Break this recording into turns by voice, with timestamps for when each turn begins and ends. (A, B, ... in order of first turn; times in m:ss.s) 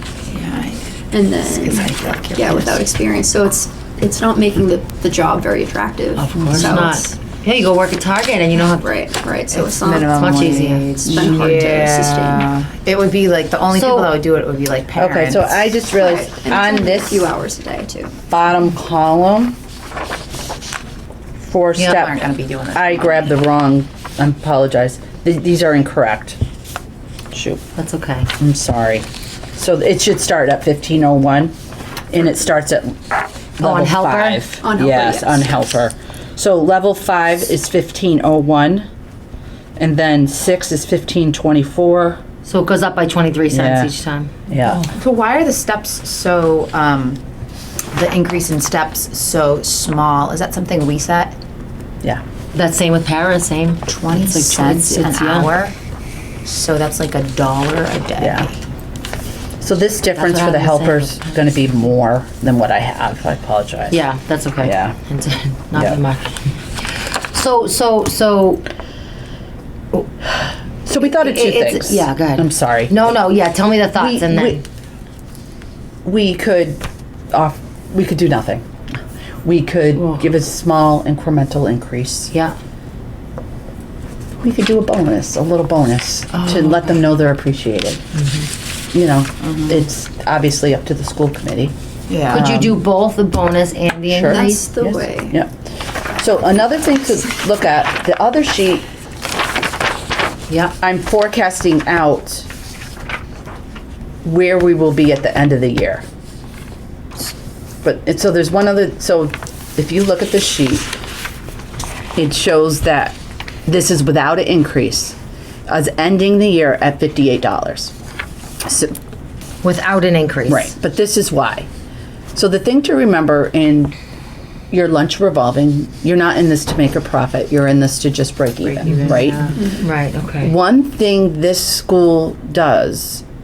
0:00.3-0:02.8 A
0:01.1-0:07.2 B
0:06.2-0:08.9 C
0:08.6-0:12.5 B
0:09.5-0:15.7 A
0:10.1-0:10.9 C
0:13.7-0:14.2 C
0:14.9-0:17.3 D
0:15.8-0:18.1 B
0:18.3-0:19.6 D
0:21.4-0:22.2 D
0:21.8-0:23.3 A
0:22.7-0:26.4 D
0:27.3-0:27.6 D
0:27.8-0:28.3 C
0:28.4-0:31.6 D
0:32.1-0:33.0 D
0:33.6-0:38.9 D
0:33.6-0:34.4 C
0:34.6-0:35.5 B
0:39.8-0:42.2 D
0:42.4-0:44.3 C
0:43.5-0:43.9 D
0:44.5-0:44.9 D
0:44.9-0:47.2 A
0:47.9-0:51.4 A
0:52.5-0:55.5 C
0:53.9-0:55.7 A
0:56.4-0:58.5 A
0:58.2-0:58.5 D
0:59.6-1:04.0 D
1:00.1-1:01.4 C
1:03.9-1:08.7 C
1:04.6-1:05.0 D
1:05.7-1:06.0 D
1:10.8-1:13.2 D
1:11.0-1:14.6 C
1:14.0-1:14.6 D
1:16.0-1:18.6 D
1:19.4-1:22.3 D
1:24.4-1:28.0 D
1:28.9-1:31.7 D
1:29.4-1:29.8 A
1:32.1-1:32.5 A
1:32.3-1:32.8 D
1:32.3-1:34.9 C
1:34.1-1:35.5 D
1:34.2-1:35.3 B
1:36.2-1:38.9 D
1:40.5-1:40.7 C
1:40.8-1:42.5 D
1:44.2-1:46.0 D
1:47.8-1:50.9 D
1:52.2-1:57.9 D
1:58.6-1:58.9 D
1:59.6-2:00.7 C
2:00.5-2:01.7 D
2:02.3-2:04.0 D
2:04.7-2:09.4 D
2:08.6-2:09.6 A
2:09.8-2:10.5 C
2:10.4-2:13.2 D